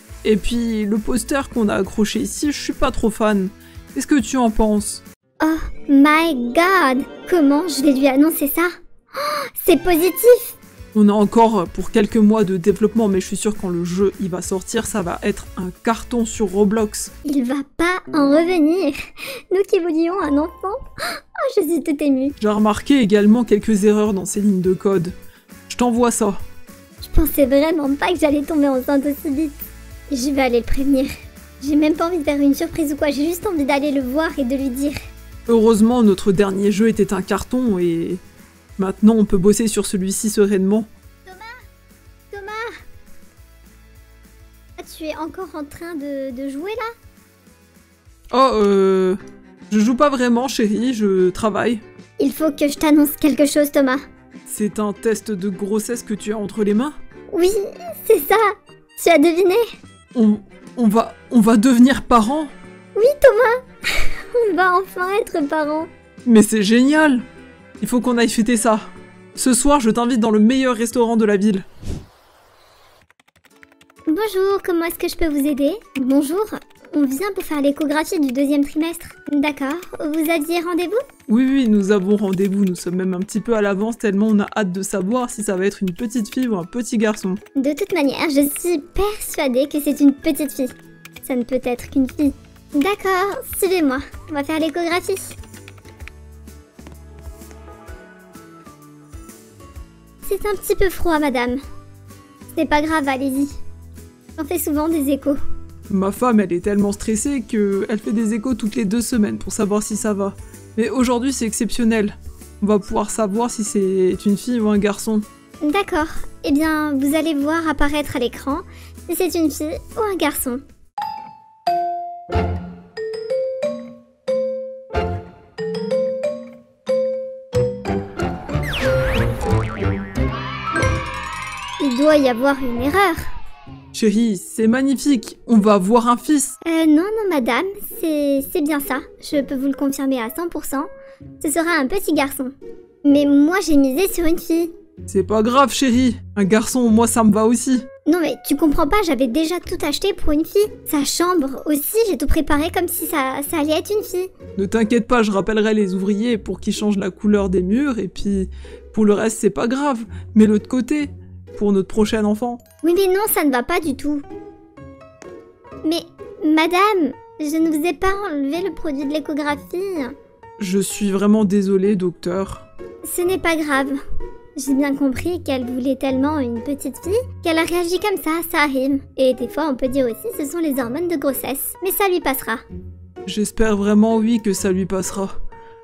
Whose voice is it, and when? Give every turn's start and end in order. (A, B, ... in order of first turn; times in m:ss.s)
0:00.2-0:05.0 A
0:05.4-0:10.5 B
0:10.9-0:17.1 A
0:17.2-0:19.0 B
0:19.5-0:22.4 B
0:22.4-0:25.1 A
0:25.7-0:26.4 A
0:27.0-0:29.6 B
0:30.1-0:35.0 B
0:35.5-0:38.2 A
0:38.8-0:40.9 A
0:41.2-0:41.6 B
0:42.3-0:42.7 B
0:44.8-0:46.9 B
0:48.3-0:49.2 A
0:49.7-0:51.8 A
0:52.2-0:54.0 B
0:54.5-0:56.9 A
0:57.3-0:58.4 B
0:59.0-0:59.6 B
1:00.1-1:02.5 A
1:03.0-1:05.9 B
1:06.2-1:07.2 A
1:07.8-1:11.6 A
1:14.1-1:21.0 B
1:21.3-1:27.4 A
1:27.6-1:30.7 B
1:31.2-1:35.4 B
1:40.2-1:41.6 B
1:42.5-1:43.5 B
1:44.4-1:45.4 B
1:45.9-1:55.2 A
1:55.6-2:00.6 B
2:11.8-2:13.2 B
2:13.9-2:16.6 A
2:16.6-2:20.9 B
2:21.4-2:22.5 B
2:23.0-2:24.7 B
2:25.1-2:27.8 A
2:28.1-2:34.3 B
2:34.6-2:42.6 A
2:42.8-2:44.2 B
2:45.8-2:50.1 B
2:50.6-2:52.7 A
2:53.0-2:54.0 B
2:54.6-3:02.6 B
3:03.2-3:05.4 A